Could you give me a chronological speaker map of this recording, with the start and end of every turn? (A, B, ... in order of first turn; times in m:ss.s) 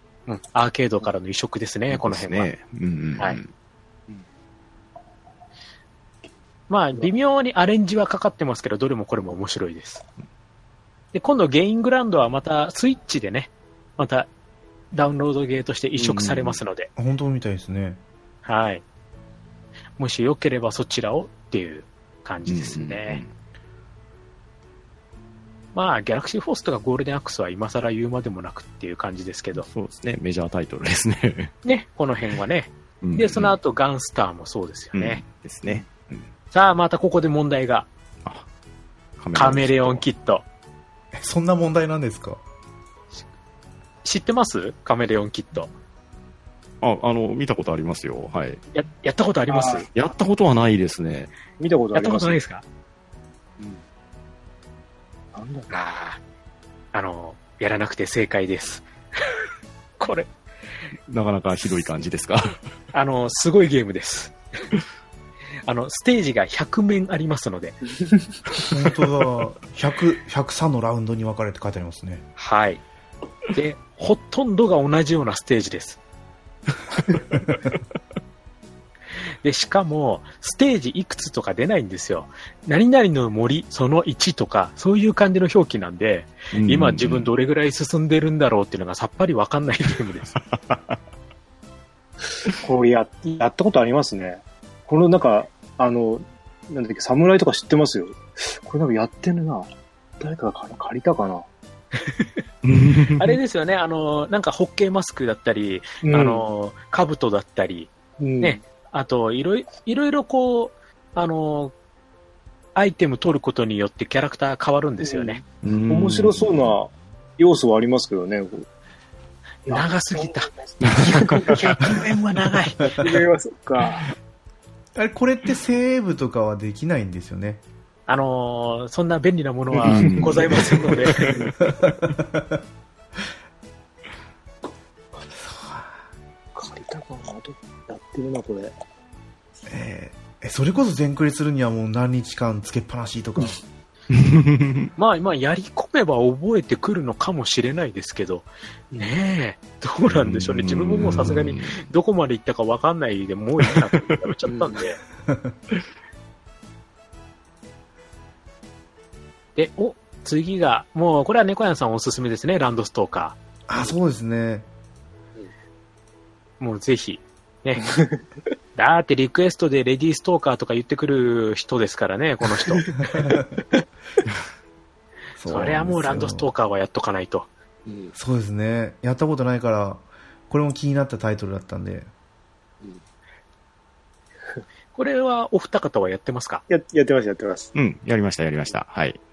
0:00.3-0:02.5 A
0:01.9-0:03.5 B
0:06.7-0:10.0 A
0:11.1-0:14.3 A
0:14.9-0:16.9 A
0:16.0-0:16.6 B
0:17.0-0:18.0 C
0:18.4-0:18.8 A
0:20.0-0:23.2 A
0:22.5-0:23.3 B
0:25.8-0:29.7 A
0:29.6-0:31.6 B
0:31.6-0:35.2 A
0:33.0-0:33.6 B
0:34.9-0:36.3 B
0:36.5-0:37.9 A
0:39.2-0:40.0 B
0:39.4-0:40.4 A
0:41.1-0:42.4 C
0:44.0-0:45.7 A
0:46.8-0:48.6 B
0:48.7-0:49.9 A
0:49.5-0:49.9 D
0:49.9-0:51.3 B
0:51.6-0:52.4 D
0:51.9-0:52.6 A
0:55.3-0:55.8 D
0:55.7-0:56.2 A
0:56.9-0:59.4 A
1:00.0-1:00.3 A
1:01.1-1:02.6 B
1:02.9-1:04.4 A
1:05.7-1:07.8 A
1:08.7-1:12.2 C
1:12.4-1:12.8 A
1:13.5-1:16.0 A
1:19.4-1:30.4 A
1:26.5-1:27.3 B
1:30.5-1:31.0 B
1:32.6-1:39.7 D
1:40.2-1:41.5 D
1:42.6-1:43.4 B
1:43.1-1:51.7 A
1:46.0-1:46.4 D
1:48.2-1:48.6 D
1:52.8-1:55.4 A
1:55.0-1:58.7 D
1:55.6-1:56.7 B
1:59.7-2:01.8 D
1:59.7-2:03.0 A
2:00.8-2:01.9 B
2:02.8-2:04.1 D
2:05.0-2:07.6 C
2:08.1-2:11.3 A
2:09.8-2:11.5 D
2:09.8-2:11.5 B
2:11.6-2:12.6 C
2:15.5-2:16.0 C
2:16.6-2:18.8 D
2:19.7-2:23.6 C
2:24.1-2:24.9 B
2:25.0-2:35.0 A
2:30.1-2:31.9 B
2:33.7-2:34.2 B
2:34.5-2:34.8 D
2:35.3-2:35.5 C
2:39.6-2:43.4 A
2:43.7-2:44.7 C
2:46.6-2:47.9 A
2:48.8-2:52.8 A
2:52.8-2:53.4 D
2:53.0-2:53.6 C
2:55.4-2:56.5 C
2:55.5-2:57.5 A
2:57.9-2:58.1 D
2:58.2-3:02.1 C
3:04.9-3:06.6 A
3:06.7-3:07.7 D
3:07.7-3:09.2 B